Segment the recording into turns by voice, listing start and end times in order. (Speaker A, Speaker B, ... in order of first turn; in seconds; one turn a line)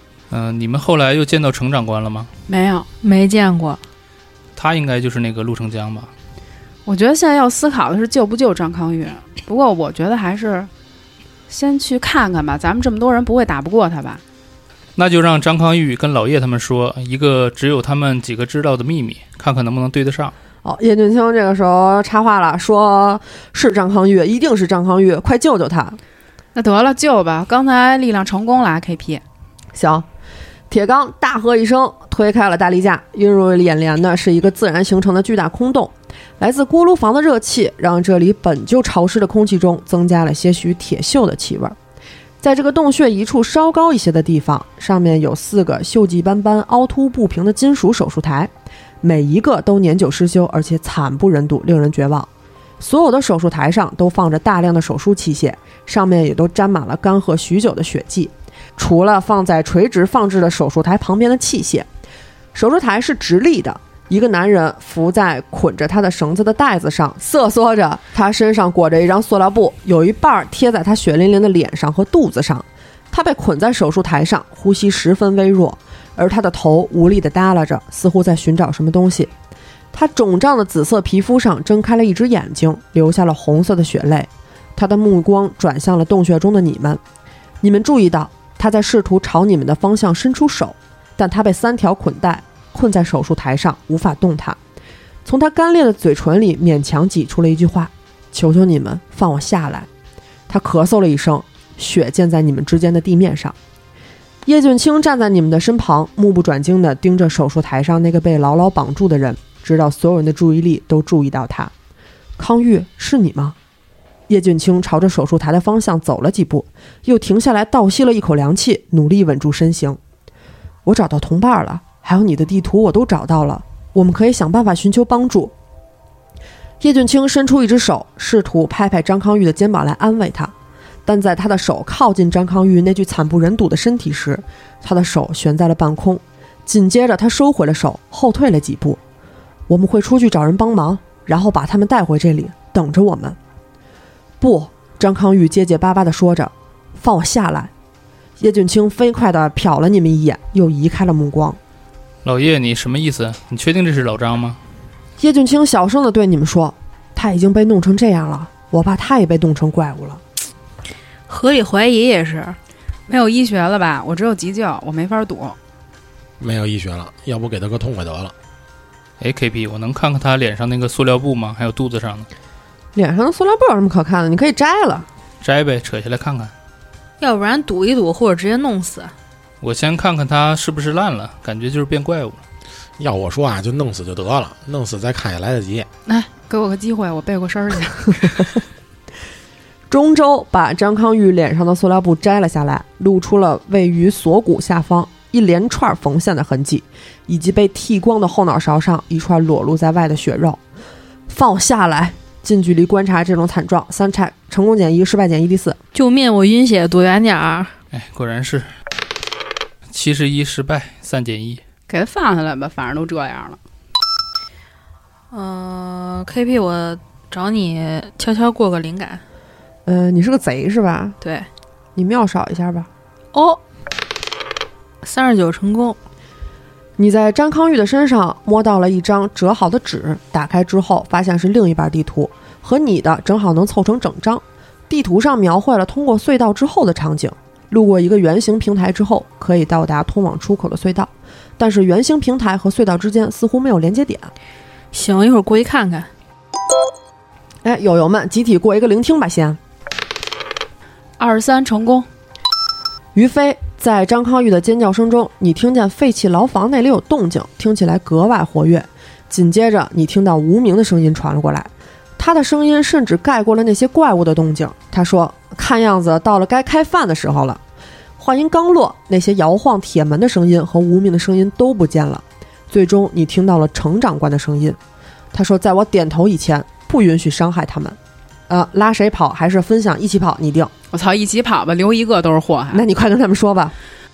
Speaker A: 0.3-2.3
Speaker B: 2.5-2.9
Speaker C: 3.0-3.8
Speaker A: 4.6-6.1
Speaker B: 6.9-10.7
Speaker B: 11.5-14.2
Speaker A: 15.0-20.3
Speaker D: 20.6-26.0
Speaker B: 26.6-29.2
Speaker D: 29.7-30.1
Speaker D: 30.7-41.8
Speaker D: 42.4-48.5
Speaker D: 49.0-52.3
Speaker D: 52.8-61.9
Speaker D: 62.5-79.3
Speaker D: 79.9-87.0
Speaker D: 87.6-94.6
Speaker D: 95.2-99.9
Speaker D: 100.5-103.6
Speaker D: 104.5-111.7
Speaker D: 112.4-113.6
Speaker D: 114.3-120.0
Speaker D: 120.8-125.5
Speaker D: 126.8-130.5
Speaker D: 131.1-139.0
Speaker D: 139.7-143.4
Speaker D: 144.4-147.7
Speaker D: 148.4-151.6
Speaker A: 152.2-154.6
Speaker D: 155.2-160.2
Speaker C: 161.3-162.6
Speaker B: 163.1-165.6
Speaker E: 166.4-168.3
Speaker A: 169.2-172.3
Speaker D: 172.9-175.1
Speaker A: 175.4-176.5
Speaker C: 177.2-179.1
Speaker A: 179.6-182.4
Speaker E: 183.0-185.9
Speaker B: 186.1-188.6
Speaker D: 189.9-200.6
Speaker D: 201.3-205.8
Speaker C: 205.9-207.7
Speaker A: 207.9-208.7
Speaker A: 209.9-211.6
Speaker B: 211.9-213.6
Speaker C: 215.3-219.2
Speaker D: 219.9-221.2
Speaker C: 221.2-221.5
Speaker D: 222.0-222.9
Speaker C: 223.3-223.6
Speaker C: 225.0-226.0
Speaker D: 227.0-244.3
Speaker C: 244.9-246.1
Speaker D: 247.6-249.6
Speaker B: 251.2-252.1
Speaker D: 253.2-267.6
Speaker D: 268.2-274.8
Speaker D: 275.3-278.0
Speaker D: 278.5-280.7
Speaker B: 280.9-282.8
Speaker D: 282.7-283.7